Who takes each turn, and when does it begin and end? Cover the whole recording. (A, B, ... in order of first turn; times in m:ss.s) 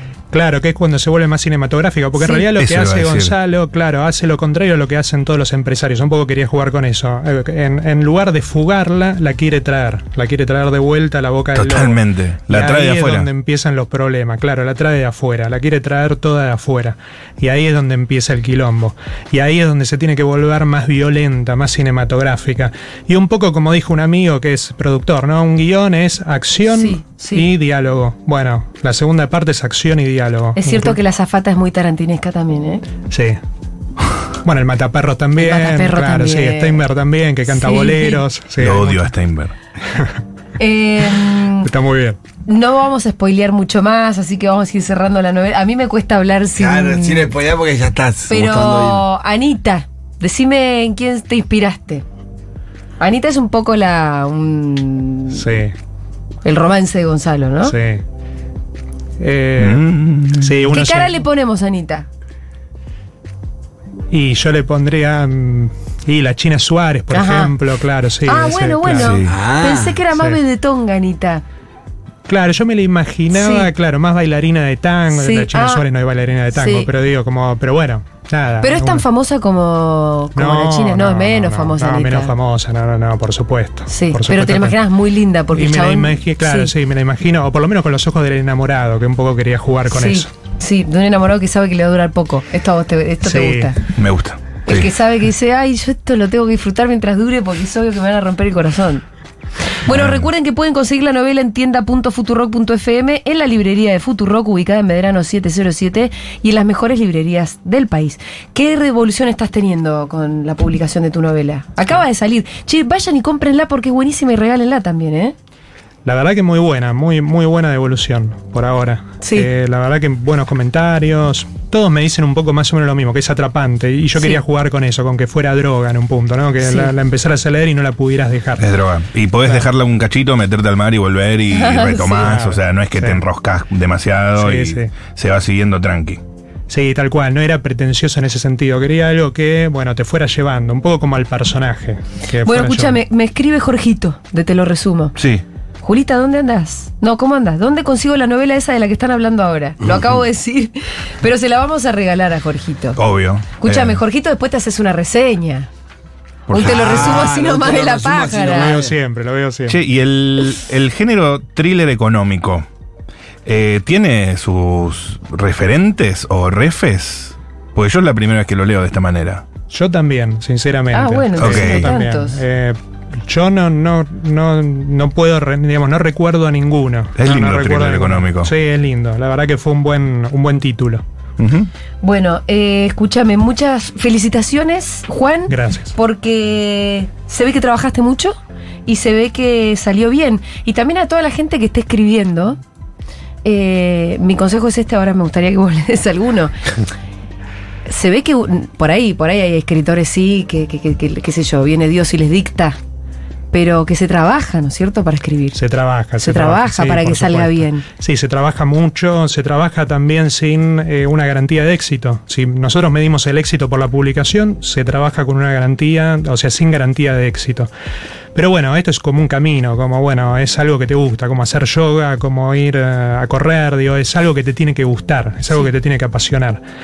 0:00.3-0:31.0 A
0:02.2-0:02.4 B
0:02.6-0:03.3 C
0:11.5-0:13.3 C
0:26.7-0:27.5 B
0:30.6-0:32.8 B
0:33.1-0:33.4 A
0:34.4-0:39.1 A
0:35.4-0:36.8 B
0:37.5-0:38.2 B
0:38.6-0:39.5 C
0:40.6-0:41.7 B
0:41.6-0:42.2 A
0:42.4-0:47.3 B
0:46.5-0:49.1 D
0:48.3-0:52.0 B
0:53.0-0:55.4 B
0:55.3-0:55.7 A
0:56.4-0:57.7 B
0:57.6-0:58.0 A
0:59.2-1:01.2 A
0:59.6-1:00.6 C
1:00.7-1:02.1 B
1:04.1-1:09.2 A
1:07.1-1:07.5 B
1:08.2-1:11.4 B
1:09.0-1:09.3 C
1:09.2-1:10.0 D
1:10.1-1:10.4 A
1:12.3-1:19.0 A
1:13.3-1:13.7 B
1:15.1-1:15.8 B
1:16.5-1:16.9 B
1:18.6-1:22.3 B
1:20.4-1:24.8 A
1:23.9-1:26.7 B
1:25.5-1:30.3 A
1:29.9-1:33.8 B
1:33.2-1:33.7 A
1:34.0-1:34.9 C
1:34.6-1:39.0 B
1:39.8-1:55.3 B
1:39.9-1:40.2 C
1:56.0-2:08.7 A
1:59.2-1:59.5 B
2:06.6-2:06.9 B
2:08.6-2:16.2 C
2:09.4-2:09.7 A
2:11.5-2:12.3 B
2:12.2-2:13.2 A
2:14.4-2:14.9 A
2:16.7-2:23.0 A
2:22.4-2:25.2 B
2:25.2-2:25.4 C
2:25.8-2:33.0 B
2:33.0-2:34.0 C
2:33.6-2:35.7 B
2:36.5-2:37.1 C
2:36.5-2:38.8 B
2:36.6-2:38.9 D
2:38.5-2:39.8 A
2:39.7-2:42.6 C
2:43.4-2:49.4 C
2:49.7-3:01.0 A
2:50.9-2:52.4 B
2:51.4-2:51.9 C
2:57.2-2:58.5 C
3:01.4-3:01.7 C
3:02.0-3:12.6 B
3:05.5-3:05.9 A
3:13.4-3:16.5 B
3:17.8-3:22.8 B
3:23.5-3:25.6 B
3:25.5-3:37.7 A
3:26.2-3:27.8 B
3:38.3-3:46.6 A